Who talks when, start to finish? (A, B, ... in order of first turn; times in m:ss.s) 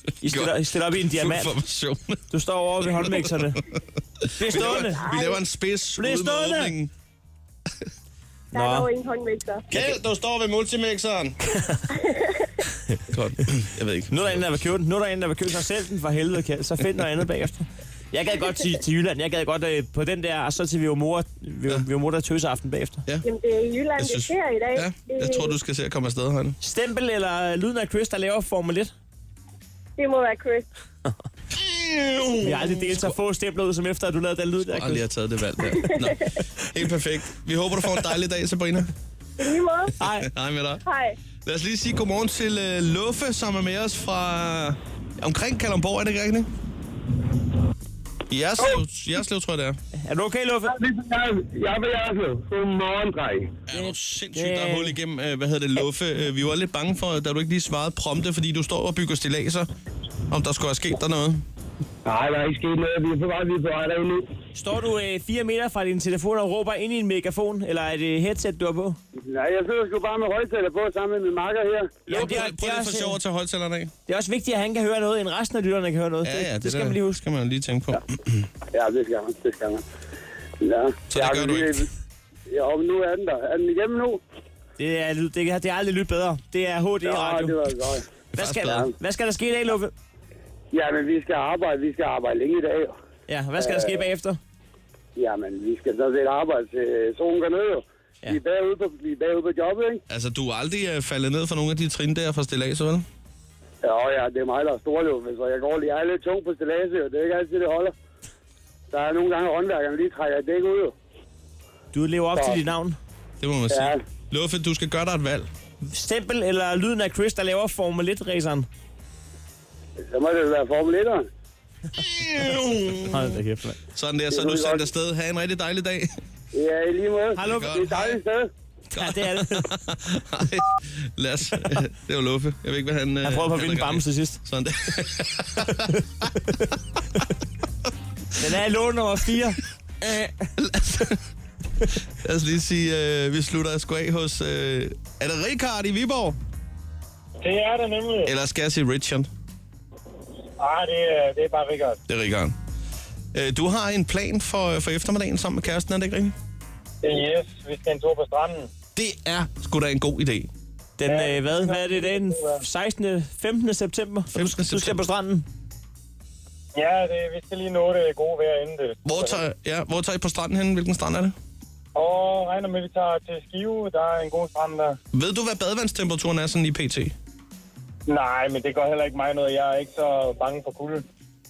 0:00.2-0:01.5 A
0:00.2-0:02.2 B
0:02.3-0:03.6 A
0:02.9-0:03.6 B
0:04.4-0:05.1 A
0:04.4-0:06.9 B
0:06.0-0:06.7 A
0:08.5-0:08.9 A
0:08.5-0:09.3 C
0:09.7-0:11.4 B
0:11.5-0:11.8 A
0:13.1-0:14.4 B
0:14.1-0:23.0 A
0:23.2-0:25.4 C
0:24.0-0:26.6 B
0:26.6-0:28.9 A
0:30.0-0:30.6 C
0:31.7-0:33.1 B
0:32.4-0:35.0 A
0:34.6-0:38.9 B
0:40.0-0:40.3 A
0:40.0-0:40.8 B
0:41.4-0:46.5 B
0:48.3-0:49.8 B
0:50.0-0:50.7 A
0:53.7-0:59.7 B
0:53.7-0:55.0 A
1:00.3-1:01.4 B
1:04.5-1:09.0 A
1:09.2-1:12.0 D
1:12.1-1:13.2 A
1:12.1-1:13.9 B
1:14.1-1:17.2 A
1:16.2-1:18.4 B
1:18.7-1:19.8 D
1:20.6-1:21.9 D
1:21.1-1:21.8 B
1:22.5-1:24.2 D
1:24.8-1:27.6 A
1:27.0-1:28.0 D
1:28.3-1:28.9 B
1:28.3-1:29.9 A
1:30.7-1:32.9 D
1:33.3-1:34.4 A
1:33.6-1:34.0 D
1:35.2-1:40.0 D
1:40.1-1:43.0 B
1:43.8-1:47.9 D
1:48.9-1:50.9 D
1:51.9-1:53.0 A
1:52.4-1:52.6 D
1:53.4-1:55.5 B
1:53.7-1:54.0 D
1:55.8-1:58.7 A
2:00.1-2:01.3 D
2:02.0-2:03.3 B
2:03.1-2:03.8 A
2:03.9-2:06.1 B
2:04.3-2:04.8 D
2:06.5-2:08.5 D
2:07.4-2:07.8 A
2:07.4-2:08.2 B
2:08.9-2:15.9 B
2:08.9-2:09.7 A
2:13.2-2:14.4 A
2:18.4-2:20.5 A
2:20.6-2:21.2 B
2:22.1-2:26.4 B
2:27.4-2:28.3 D
2:28.2-2:29.3 B
2:30.6-2:32.0 D
2:32.1-2:32.6 B
2:33.3-2:36.3 B
2:37.0-2:38.7 D
2:39.0-2:40.5 B
2:41.0-2:45.4 A
2:41.1-2:42.6 D
2:44.3-2:45.0 B
2:46.7-2:49.4 D
2:49.0-2:51.3 B
2:51.9-2:55.0 D
2:55.1-2:57.1 B
2:58.1-3:01.0 D